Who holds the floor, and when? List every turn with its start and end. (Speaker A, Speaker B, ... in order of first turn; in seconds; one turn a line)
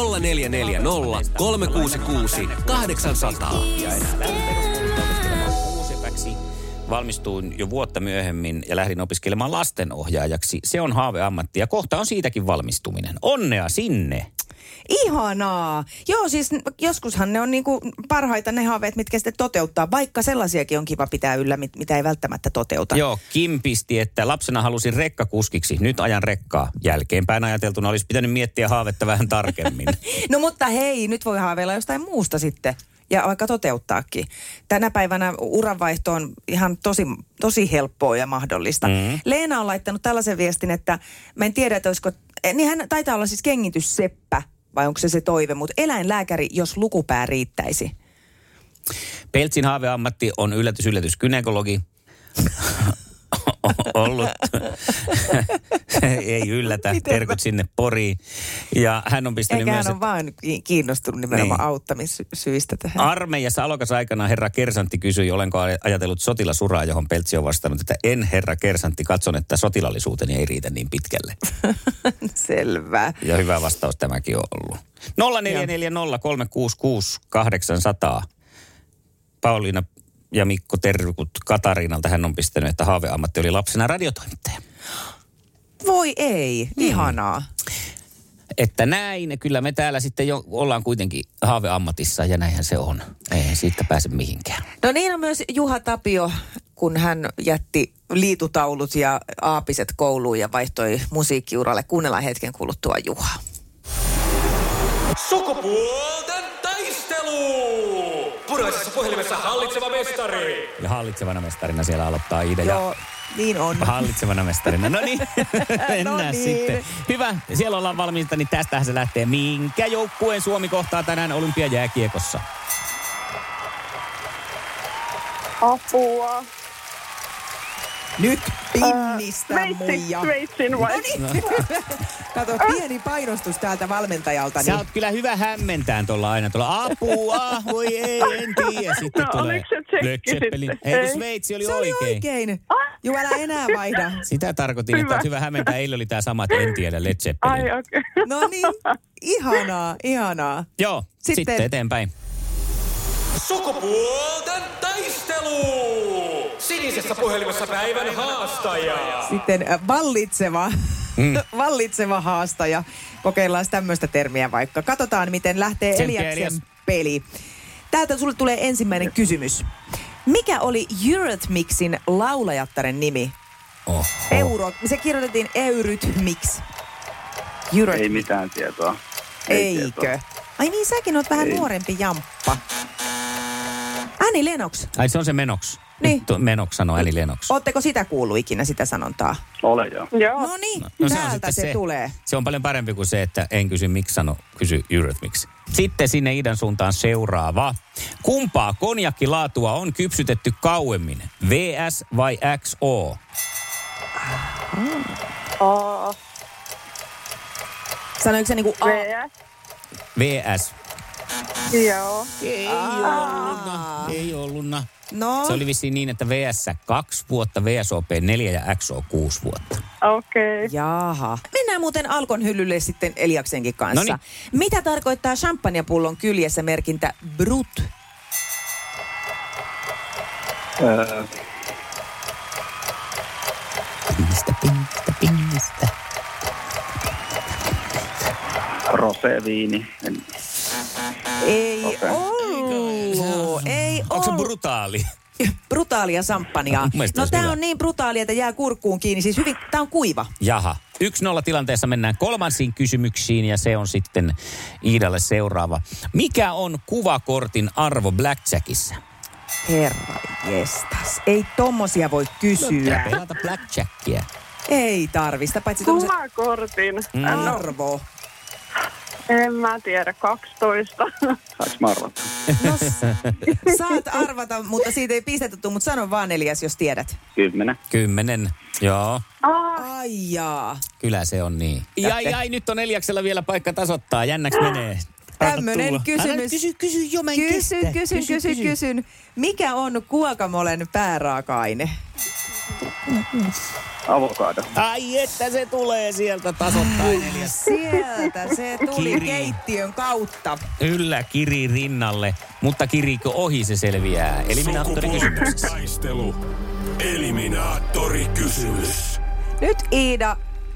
Speaker A: 0.2-14.3
Speaker B: 0.5-3.6
Speaker C: 3.0-3.5
Speaker D: 14.9-23.0
Speaker A: 22.9-30.0
Speaker D: 30.1-47.9
Speaker A: 38.9-39.2
Speaker A: 49.3-51.8
Speaker A: 52.6-58.2
Speaker A: 58.7-60.0
Speaker D: 59.5-63.1
Speaker A: 61.3-61.6
Speaker A: 63.0-71.4
Speaker D: 72.0-73.2
Speaker A: 73.2-78.3
Speaker A: 79.4-84.6
Speaker D: 85.8-87.5
Speaker A: 86.8-87.1
Speaker A: 88.6-94.6
Speaker D: 94.8-103.4
Speaker C: 106.4-106.9
Speaker C: 108.5-110.0
Speaker A: 110.8-112.8
Speaker D: 112.6-114.1
Speaker A: 113.8-122.4
Speaker D: 115.4-116.9
Speaker E: 125.6-126.4
Speaker D: 128.2-134.8
Speaker E: 128.8-131.0
Speaker A: 134.6-142.2
Speaker E: 139.3-140.5
Speaker D: 141.7-144.2
Speaker A: 144.3-147.7
Speaker E: 147.5-147.9
Speaker D: 148.2-150.7
Speaker A: 150.8-152.1
Speaker D: 151.2-151.7
Speaker C: 153.5-159.0
Speaker D: 159.2-167.2
Speaker A: 165.9-166.5
Speaker D: 167.9-169.7
Speaker D: 170.3-173.3
Speaker A: 173.9-174.5
Speaker D: 174.3-176.6
Speaker D: 177.7-178.3
Speaker F: 177.9-180.1
Speaker D: 179.5-182.6
Speaker F: 181.4-181.7
Speaker D: 184.2-184.9
Speaker A: 185.0-187.5
Speaker D: 187.5-189.4
Speaker F: 189.6-190.1
Speaker E: 190.2-190.5
Speaker D: 190.4-192.2
Speaker A: 190.9-203.2
Speaker D: 204.3-205.2
Speaker E: 205.6-206.2
Speaker D: 208.2-209.1
Speaker E: 208.8-209.3
Speaker A: 210.2-210.7
Speaker E: 211.8-212.3
Speaker A: 212.4-214.9
Speaker D: 212.6-214.1
Speaker D: 215.1-215.6
Speaker A: 215.4-219.8
Speaker E: 220.0-220.6
Speaker D: 220.7-227.9
Speaker F: 230.8-231.3
Speaker A: 234.1-235.9
Speaker F: 238.9-240.2
Speaker D: 241.4-244.5
Speaker F: 241.8-242.2
Speaker A: 242.5-245.0
Speaker D: 245.4-250.3
Speaker A: 246.8-247.6
Speaker A: 250.4-259.0
Speaker D: 259.6-263.1
Speaker A: 262.6-264.3
Speaker D: 264.7-266.1
Speaker E: 265.9-267.6
Speaker A: 267.1-267.5
Speaker D: 267.2-268.0
Speaker E: 269.3-271.1
Speaker F: 271.6-272.3
Speaker D: 272.6-277.2
Speaker F: 277.4-277.8
Speaker A: 277.9-279.2
Speaker E: 279.5-279.8
Speaker D: 279.8-280.8
Speaker A: 281.0-288.8
Speaker D: 285.4-286.6
Speaker D: 287.3-291.9
Speaker F: 294.1-294.7
Speaker A: 294.8-297.6
Speaker D: 296.7-300.6
Speaker A: 298.9-299.6
Speaker A: 300.8-305.6
Speaker B: 304.5-306.3
Speaker B: 307.0-309.2
Speaker D: 309.6-310.4